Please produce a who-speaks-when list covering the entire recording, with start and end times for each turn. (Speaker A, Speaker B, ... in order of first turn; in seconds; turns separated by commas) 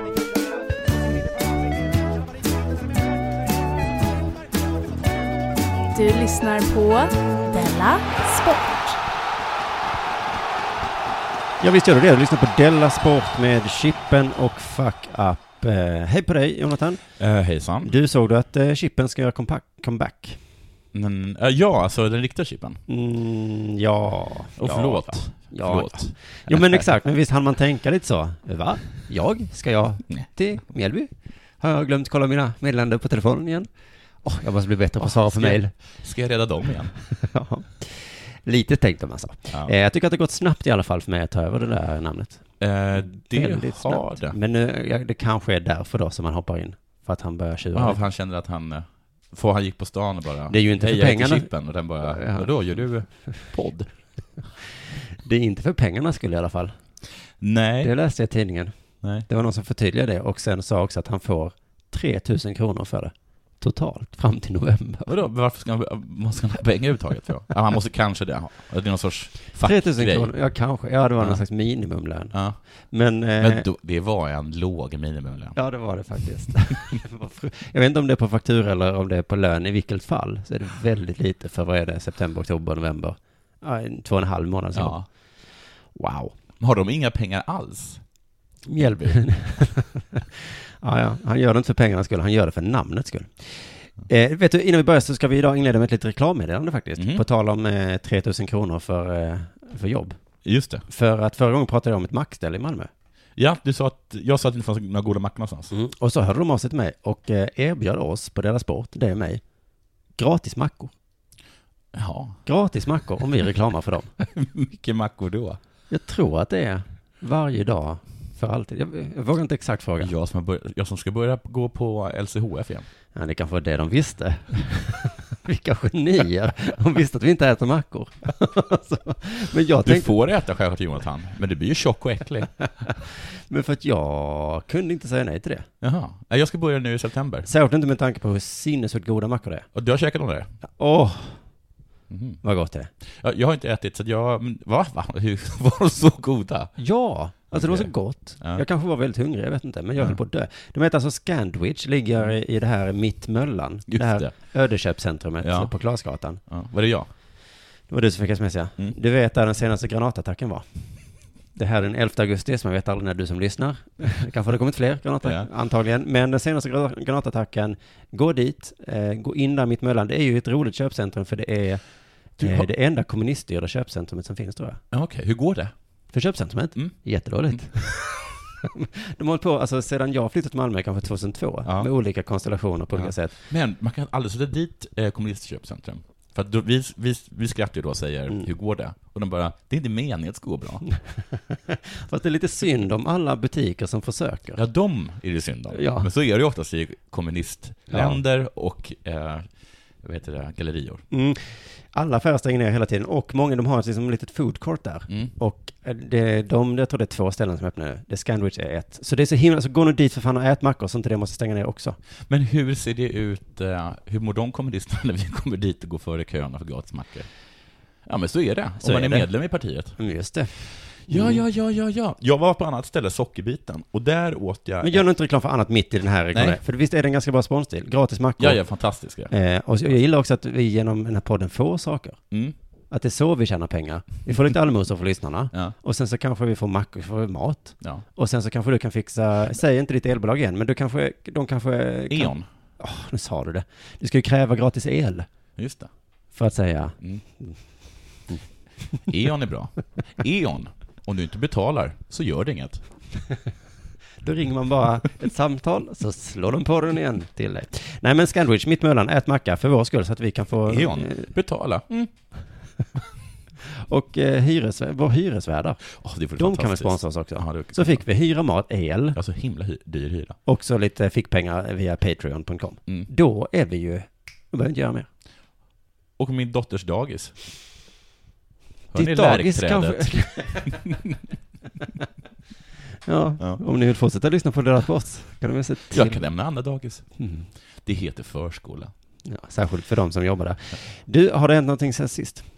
Speaker A: 5.9-9.0, Speaker B: 11.6-17.0, Speaker C: 17.2-17.9, Speaker B: 17.8-20.4, Speaker C: 20.9-22.8, Speaker B: 22.9-33.7, Speaker C: 24.6-26.8, Speaker B: 34.2-35.7, Speaker C: 35.0-36.9, Speaker B: 37.1-48.0, Speaker C: 42.6-44.4, Speaker C: 47.7-54.0, Speaker B: 50.5-52.5, Speaker B: 55.2-56.7, Speaker C: 57.4-57.9, Speaker B: 57.8-58.7, Speaker B: 59.2-65.1, Speaker C: 65.1-70.3, Speaker B: 69.6-72.3, Speaker C: 72.3-72.6, Speaker B: 72.9-73.7, Speaker C: 73.4-75.6, Speaker B: 75.5-85.0, Speaker C: 84.7-85.0, Speaker B: 85.9-86.3, Speaker C: 86.6-88.0, Speaker B: 88.7-100.2, Speaker C: 88.8-89.2, Speaker C: 97.0-97.2, Speaker C: 100.4-100.8, Speaker B: 100.9-102.9, Speaker C: 103.3-105.7, Speaker B: 105.7-109.4, Speaker B: 110.2-110.9, Speaker C: 111.9-112.4, Speaker B: 112.5-114.1, Speaker C: 114.2-115.6, Speaker B: 115.9-120.1, Speaker C: 120.0-122.8, Speaker B: 123.1-130.1, Speaker C: 129.8-132.6, Speaker B: 133.5-135.7, Speaker C: 135.8-137.5, Speaker B: 137.4-139.7, Speaker C: 139.7-140.5, Speaker B: 140.6-141.5, Speaker C: 142.1-142.4, Speaker B: 142.4-142.9, Speaker C: 143.1-146.8, Speaker B: 146.8-156.4, Speaker C: 147.5-148.6, Speaker C: 153.9-154.3, Speaker C: 155.4-155.7, Speaker C: 156.5-157.1, Speaker B: 157.9-160.6, Speaker B: 161.5-174.8, Speaker C: 172.4-172.7, Speaker C: 174.9-175.7, Speaker B: 176.1-183.3, Speaker C: 182.9-190.9, Speaker B: 191.3-194.6, Speaker C: 194.6-199.5, Speaker B: 195.7-196.1, Speaker B: 197.9-198.2, Speaker C: 200.0-201.0, Speaker B: 201.1-212.0, Speaker C: 212.3-217.3, Speaker C: 218.0-220.0, Speaker B: 218.8-219.3, Speaker B: 219.9-221.4, Speaker C: 221.0-225.0, Speaker B: 224.8-228.6, Speaker C: 228.4-229.3, Speaker B: 229.3-232.2, Speaker B: 232.9-245.2, Speaker C: 242.1-242.4, Speaker C: 245.6-245.9, Speaker B: 246.3-247.6, Speaker C: 249.1-252.8, Speaker B: 254.2-261.3, Speaker C: 260.7-262.1, Speaker B: 263.6-265.8, Speaker C: 266.0-268.0, Speaker B: 266.3-269.2, Speaker C: 269.1-270.4, Speaker B: 270.4-275.1, Speaker C: 276.2-277.3, Speaker C: 278.9-280.1, Speaker B: 278.9-280.9, Speaker C: 280.6-281.1, Speaker B: 283.1-286.2, Speaker C: 285.9-287.1, Speaker B: 287.2-287.5, Speaker C: 287.8-288.9, Speaker B: 289.2-292.4